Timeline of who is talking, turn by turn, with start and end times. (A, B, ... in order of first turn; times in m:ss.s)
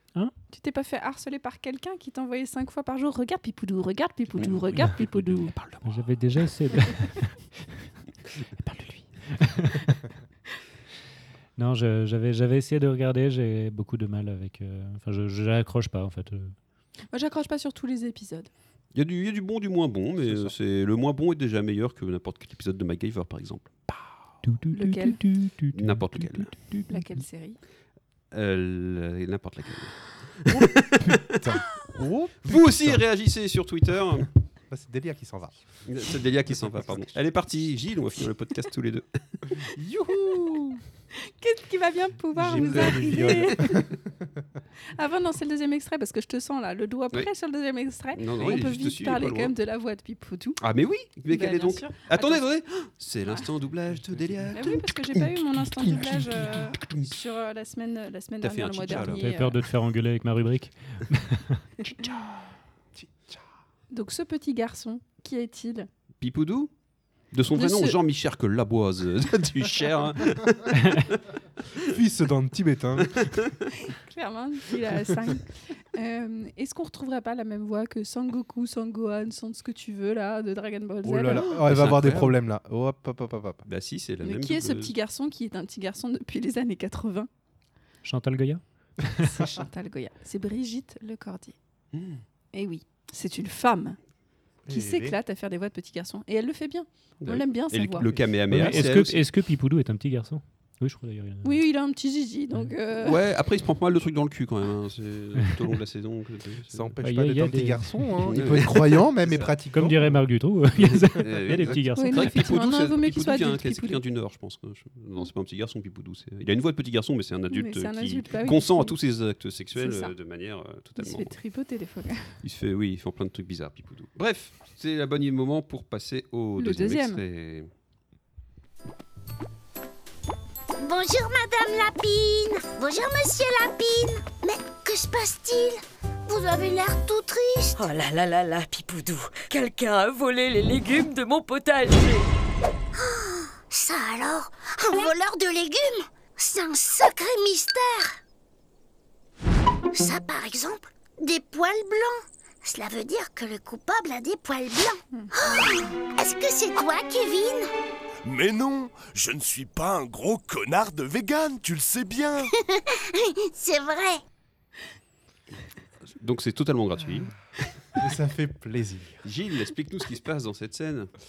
0:00.5-0:05.5 A
0:04.4-0:06.0 B
0:05.8-0:07.4 C
0:08.6-0:10.0 C
0:11.6-0:16.5 C
0:17.1-0:18.5 A
0:18.9-0:23.9 B
0:24.4-0:26.8 C
0:24.7-0:25.2 A
0:25.7-0:26.5 B
0:26.9-0:27.6 A
0:28.3-0:31.4 B
0:30.5-0:33.0 D
0:32.4-0:34.3 B
0:34.7-0:35.8 D
0:35.8-0:39.6 B
0:36.5-0:37.0 D
0:39.7-0:40.8 D
0:41.3-0:43.9 A
0:42.3-0:44.0 D
0:42.6-0:43.3 B
0:45.0-0:50.6 A
0:48.1-0:49.5 B
0:50.6-0:57.1 B
0:51.3-0:52.4 A
0:54.5-0:59.6 A
0:58.4-0:59.2 B
0:58.9-1:01.6 C
1:03.0-1:03.4 D
1:03.9-1:05.9 A
1:06.2-1:06.7 B
1:07.3-1:11.2 B
1:07.5-1:08.0 A
1:11.9-1:13.3 D
1:13.1-1:13.5 B
1:13.8-1:21.6 A
1:21.0-1:23.6 D
1:21.5-1:22.4 B
1:23.7-1:24.9 B
1:24.2-1:27.3 A
1:28.0-1:29.3 C
1:29.2-1:31.5 A
1:31.9-1:32.2 B
1:32.5-1:34.0 A
1:34.6-1:35.2 D
1:34.7-1:38.0 A
1:37.2-1:39.3 B
1:38.0-1:38.9 D
1:38.5-1:41.5 C
1:41.4-1:43.2 A
1:43.0-1:46.9 B
1:46.7-1:50.2 D
1:47.0-1:48.5 C
1:48.2-1:49.5 B
1:49.7-1:52.5 C
1:51.2-2:01.3 B
1:51.9-1:54.0 A
1:57.5-1:59.0 A
1:59.8-2:00.1 A
2:01.0-2:02.4 A
2:02.4-2:07.7 B
2:06.6-2:07.2 A
2:10.8-2:17.8 E
2:17.8-2:22.2 F
2:23.0-2:28.2 E
2:29.9-2:37.7 E
2:38.2-2:42.5 G
2:42.7-2:44.2 E
2:46.2-2:47.3 B
2:48.0-2:49.2 D
2:49.2-2:51.1 B